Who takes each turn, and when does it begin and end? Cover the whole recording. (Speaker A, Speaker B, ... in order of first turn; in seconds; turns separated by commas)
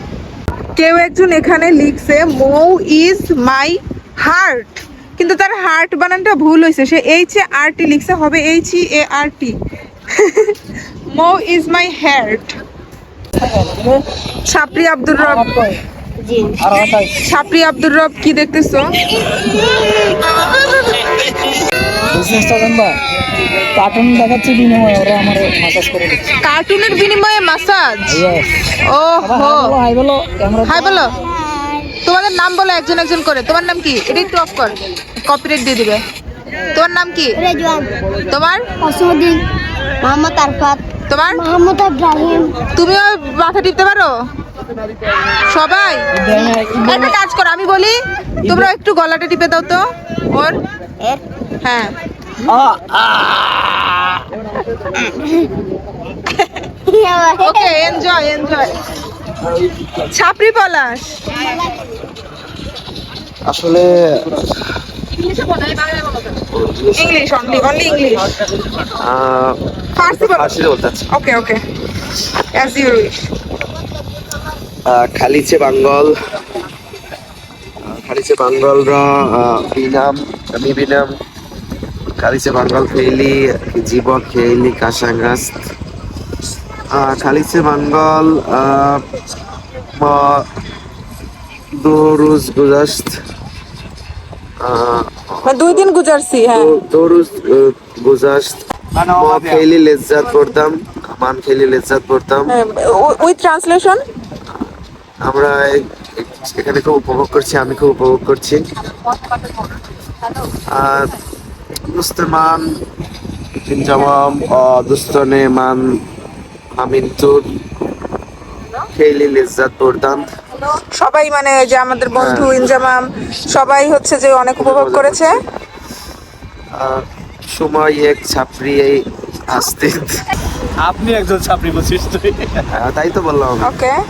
Speaker A: 0.8-9.6, Speaker A: 10.2-10.5, Speaker A: 11.1-12.6, Speaker B: 13.5-14.0, Speaker A: 14.5-15.5, Speaker B: 15.2-15.8, Speaker C: 16.2-16.6, Speaker B: 16.6-17.1, Speaker A: 17.2-18.9, Speaker B: 22.1-22.9, Speaker B: 23.7-26.2, Speaker A: 26.4-29.8, Speaker B: 28.1-28.5, Speaker B: 29.2-31.0, Speaker A: 30.6-31.1, Speaker A: 32.0-36.0, Speaker A: 36.7-37.4, Speaker C: 37.4-37.9, Speaker A: 38.3-38.6, Speaker C: 38.8-39.4, Speaker C: 40.0-42.5, Speaker A: 41.1-41.4, Speaker A: 42.7-44.1, Speaker A: 45.5-46.0, Speaker B: 46.3-46.6, Speaker C: 46.3-47.1, Speaker A: 46.8-50.5, Speaker A: 51.6-51.9, Speaker C: 56.9-57.8, Speaker A: 57.4-58.7, Speaker A: 60.1-61.2, Speaker C: 61.5-61.8, Speaker D: 63.5-64.3, Speaker D: 66.5-67.2, Speaker A: 67.0-68.2, Speaker D: 69.0-71.0, Speaker A: 70.0-70.5, Speaker A: 71.1-71.6, Speaker A: 72.5-73.1, Speaker D: 74.8-76.1, Speaker D: 77.8-81.1, Speaker D: 82.2-85.5, Speaker D: 86.9-89.0, Speaker D: 90.0-90.4, Speaker D: 91.7-93.2, Speaker D: 94.6-95.8, Speaker A: 95.4-96.7, Speaker D: 96.5-102.5, Speaker E: 99.0-99.7, Speaker A: 102.5-104.0, Speaker D: 105.2-108.6, Speaker D: 110.7-111.1, Speaker D: 111.9-112.7, Speaker D: 113.7-115.8, Speaker D: 116.7-117.4, Speaker D: 118.8-120.3, Speaker A: 121.0-125.3, Speaker D: 122.2-122.5, Speaker D: 124.6-125.2, Speaker D: 126.7-130.2, Speaker E: 130.8-132.6, Speaker D: 132.8-133.7, Speaker A: 133.6-133.9